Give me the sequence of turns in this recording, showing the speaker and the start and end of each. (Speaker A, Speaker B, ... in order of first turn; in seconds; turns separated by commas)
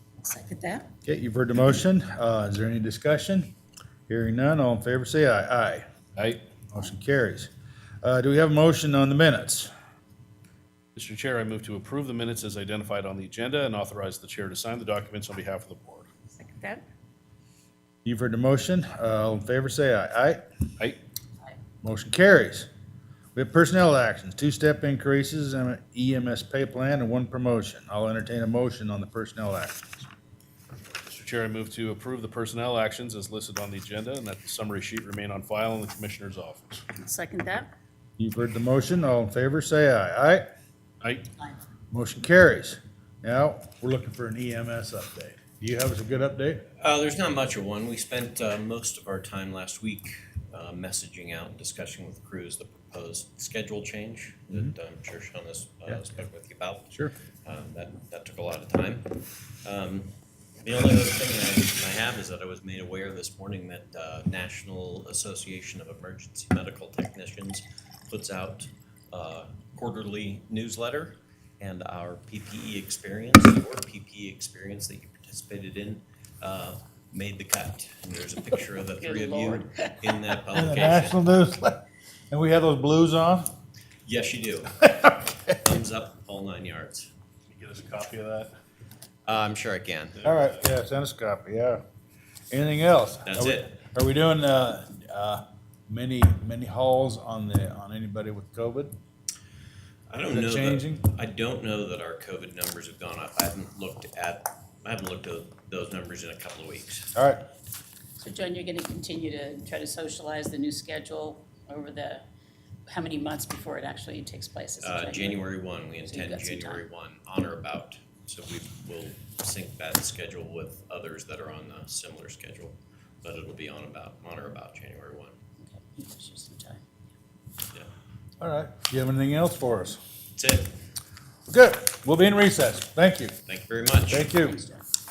Speaker A: 0.2-0.9, Speaker B: 1.0-3.5, Speaker B: 4.1-5.8, Speaker B: 6.7-7.5, Speaker B: 8.0-9.7, Speaker C: 10.9-16.1, Speaker A: 16.4-16.8, Speaker B: 18.0-20.4, Speaker B: 21.8-22.7, Speaker B: 23.3-29.9, Speaker C: 31.1-36.8, Speaker A: 36.9-37.7, Speaker B: 38.2-40.4, Speaker B: 41.9-46.7, Speaker D: 46.8-81.2, Speaker A: 79.0-80.4, Speaker B: 80.5-83.5, Speaker D: 84.0-87.1, Speaker B: 84.8-85.1, Speaker C: 87.5-88.5, Speaker D: 89.2-90.2, Speaker C: 90.2-90.6, Speaker B: 90.2-91.8, Speaker B: 92.5-98.9, Speaker D: 93.2-93.7, Speaker D: 100.1-107.1, Speaker B: 100.3-101.0, Speaker B: 107.1-107.4, Speaker A: 108.2-112.2, Speaker A: 112.9-115.5, Speaker D: 114.8-125.3, Speaker A: 116.0-116.8, Speaker A: 125.6-126.8, Speaker B: 128.4-130.0, Speaker D: 130.3-130.7, Speaker B: 131.5-133.3, Speaker D: 133.5-134.3, Speaker B: 134.1-134.6, Speaker A: 134.3-134.8